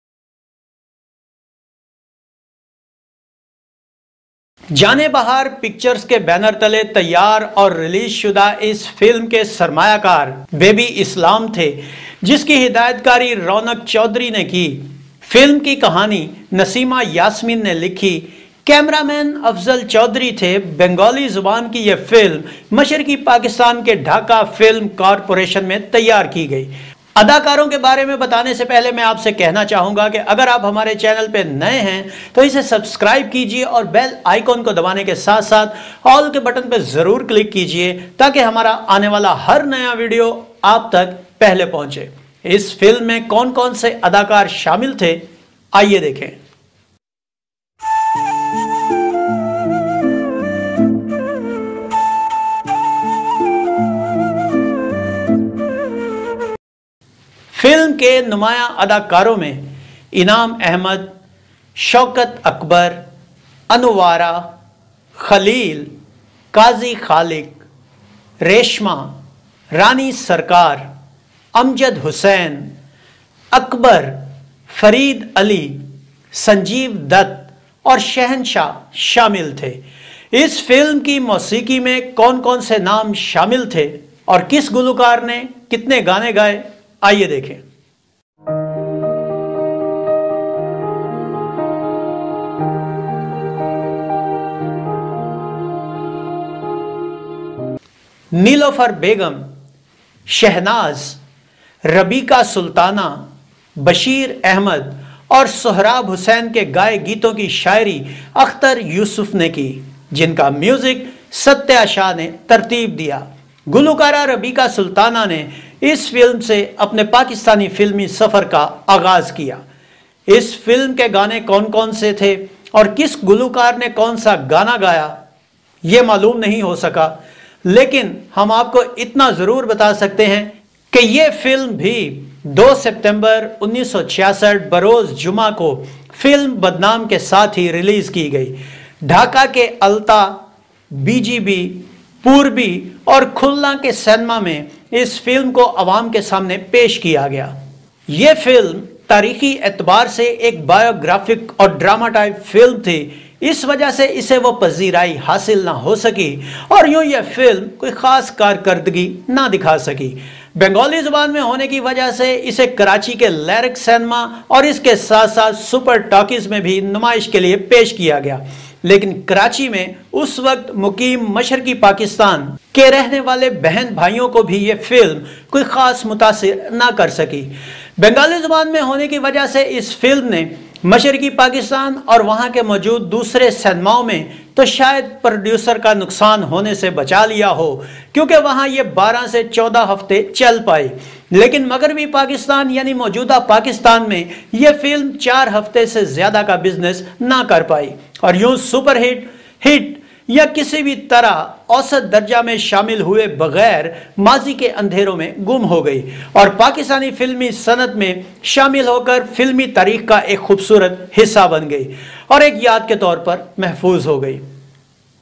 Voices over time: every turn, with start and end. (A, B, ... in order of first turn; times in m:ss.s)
0:04.7-0:46.4 A
0:57.5-1:01.1 A
1:01.8-1:03.0 A
1:03.7-1:04.5 A
1:05.2-1:05.9 A
1:06.5-1:07.7 A
1:08.4-1:09.2 A
1:09.7-1:10.9 A
1:11.6-1:12.7 A
1:13.5-1:19.8 A
1:20.3-1:27.6 A
1:38.3-1:39.5 A
1:40.3-1:41.2 A
1:41.8-1:59.6 A
2:00.3-2:05.2 A
2:05.8-2:20.4 A
2:20.9-2:27.5 A
2:28.1-3:34.4 A